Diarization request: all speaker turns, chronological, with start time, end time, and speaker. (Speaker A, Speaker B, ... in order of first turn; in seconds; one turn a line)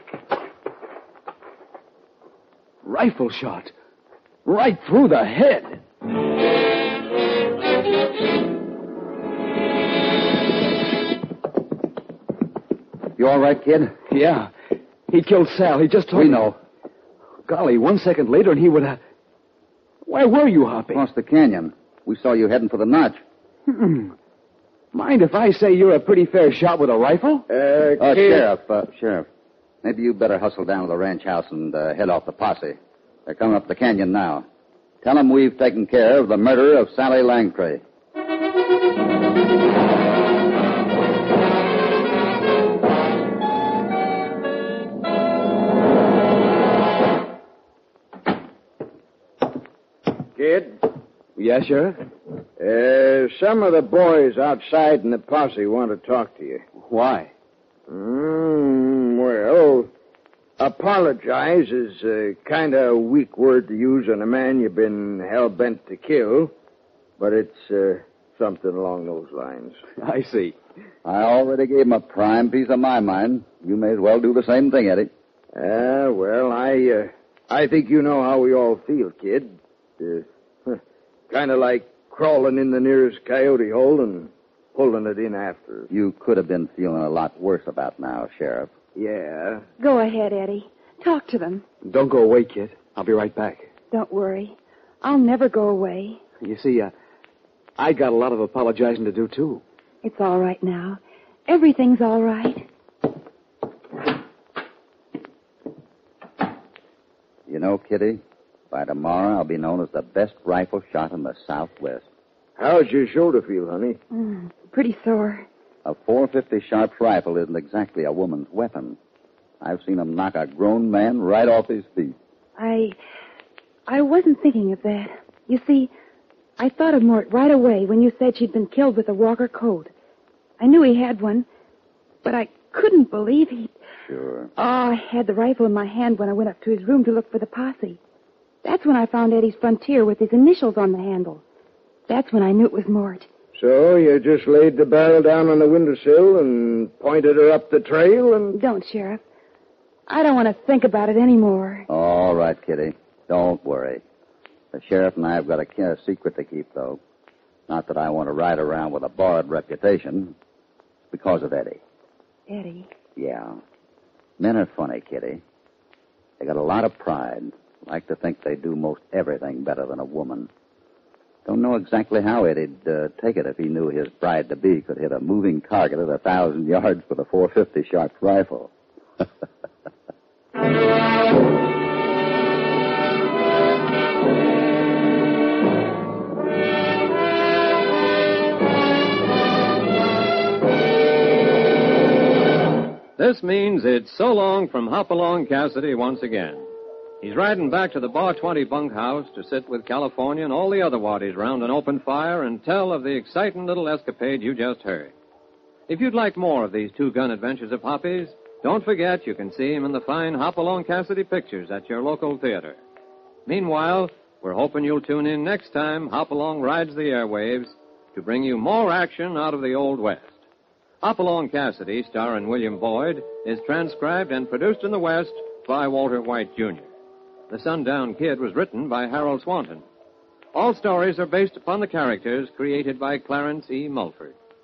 Speaker A: 2.8-3.7
Speaker A: 4.4-5.8
Speaker B: 13.2-13.9
Speaker A: 14.1-14.5
Speaker A: 15.1-16.4
Speaker B: 16.1-16.6
Speaker A: 17.4-19.0
Speaker A: 20.0-21.0
Speaker B: 20.9-23.2
Speaker A: 23.7-24.1
Speaker A: 24.9-27.4
Speaker C: 27.5-28.5
Speaker B: 28.0-29.3
Speaker B: 29.8-34.4
Speaker B: 35.0-37.8
Speaker C: 50.4-50.8
Speaker A: 51.4-52.0
Speaker C: 52.6-56.6
Speaker A: 56.8-57.3
Speaker C: 57.9-59.9
Speaker C: 60.6-66.5
Speaker C: 67.2-69.8
Speaker A: 70.0-70.5
Speaker B: 71.0-75.1
Speaker C: 75.5-85.9
Speaker B: 85.9-88.7
Speaker C: 89.0-89.7
Speaker D: 89.8-91.6
Speaker A: 91.8-93.7
Speaker D: 93.9-96.2
Speaker A: 96.4-96.9
Speaker A: 97.8-99.6
Speaker D: 100.0-102.7
Speaker B: 107.5-112.0
Speaker C: 112.6-114.0
Speaker D: 114.1-115.5
Speaker B: 115.8-119.0
Speaker B: 119.6-122.2
Speaker D: 122.6-123.0
Speaker D: 123.9-125.9
Speaker D: 126.6-129.9
Speaker D: 130.6-131.5
Speaker D: 132.2-133.7
Speaker B: 134.1-134.5
Speaker D: 134.6-138.0
Speaker D: 138.6-141.4
Speaker D: 142.1-143.3
Speaker C: 143.6-148.6
Speaker D: 148.5-149.2
Speaker D: 150.1-151.9
Speaker B: 151.9-154.0
Speaker B: 154.7-157.0
Speaker B: 157.7-160.3
Speaker B: 161.1-161.8
Speaker D: 162.5-162.9
Speaker B: 163.2-163.6
Speaker B: 164.4-165.4
Speaker B: 166.4-170.5
Speaker B: 171.4-178.7
Speaker E: 193.2-196.6
Speaker E: 197.2-205.1
Speaker E: 205.9-212.8
Speaker E: 213.4-220.3
Speaker E: 221.0-226.9
Speaker E: 227.5-229.8
Speaker E: 230.5-234.3